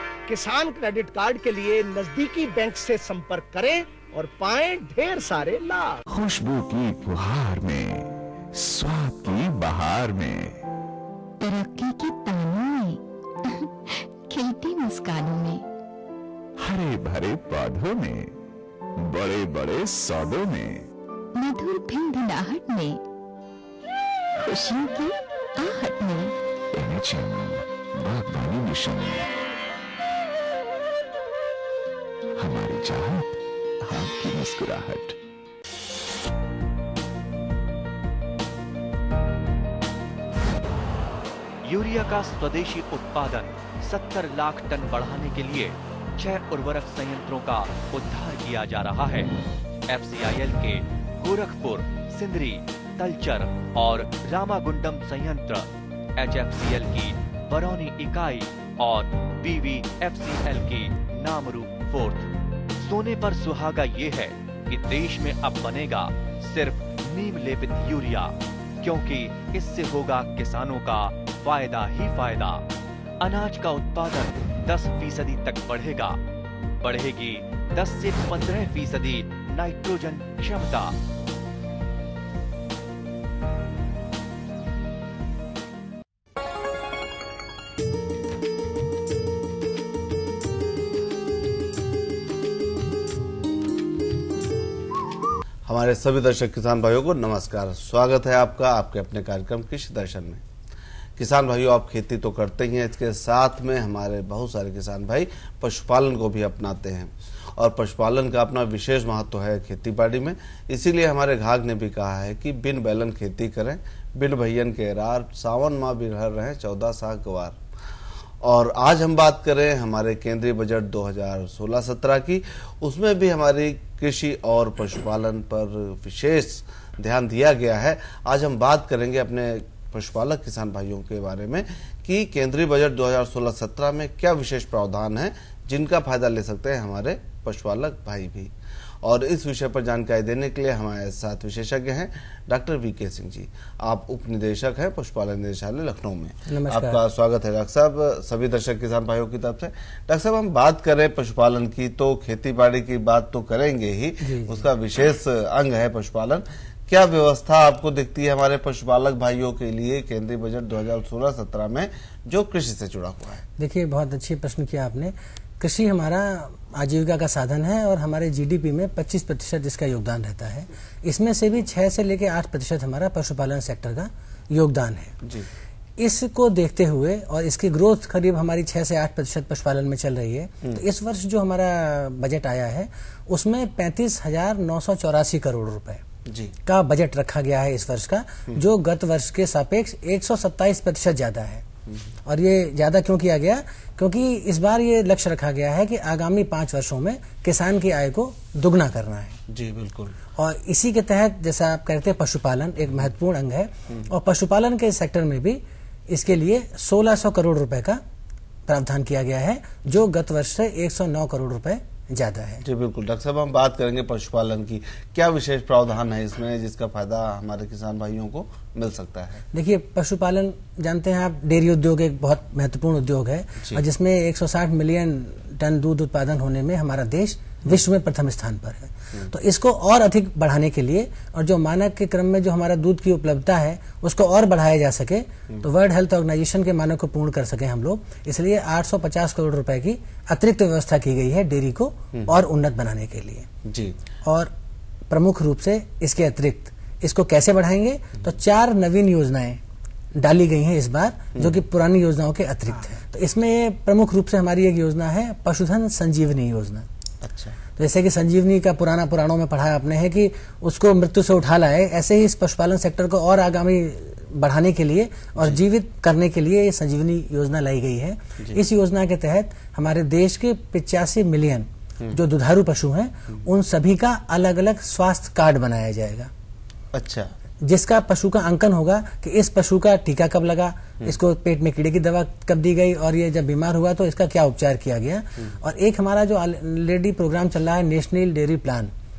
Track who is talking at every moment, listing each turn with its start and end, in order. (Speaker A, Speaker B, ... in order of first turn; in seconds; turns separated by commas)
Speaker A: 0.3-6.0, Speaker B: 6.1-10.6, Speaker C: 11.4-15.7, Speaker B: 16.6-18.4, Speaker B: 19.0-20.9, Speaker C: 21.4-23.0, Speaker C: 24.4-26.4, Speaker B: 26.7-29.3, Speaker B: 32.4-35.2, Speaker D: 41.6-49.3, Speaker D: 49.9-72.6, Speaker D: 73.2-76.2, Speaker D: 76.8-81.0, Speaker E: 95.7-100.4, Speaker E: 101.2-117.6, Speaker E: 118.4-138.5, Speaker E: 139.0-163.4, Speaker F: 146.5-147.0, Speaker F: 154.2-154.7, Speaker F: 163.6-175.2, Speaker F: 176.0-186.0, Speaker E: 186.3-186.6, Speaker F: 186.7-191.7, Speaker F: 192.3-199.4, Speaker E: 199.5-200.2, Speaker F: 200.4-208.0, Speaker F: 208.7-212.6, Speaker E: 212.6-219.4, Speaker F: 219.5-243.5, Speaker E: 243.7-244.0, Speaker F: 244.2-244.5, Speaker F: 245.1-249.6, Speaker F: 250.2-256.9, Speaker E: 251.4-251.6, Speaker E: 257.2-257.6, Speaker F: 257.8-276.3, Speaker E: 276.9-277.3, Speaker F: 277.6-288.9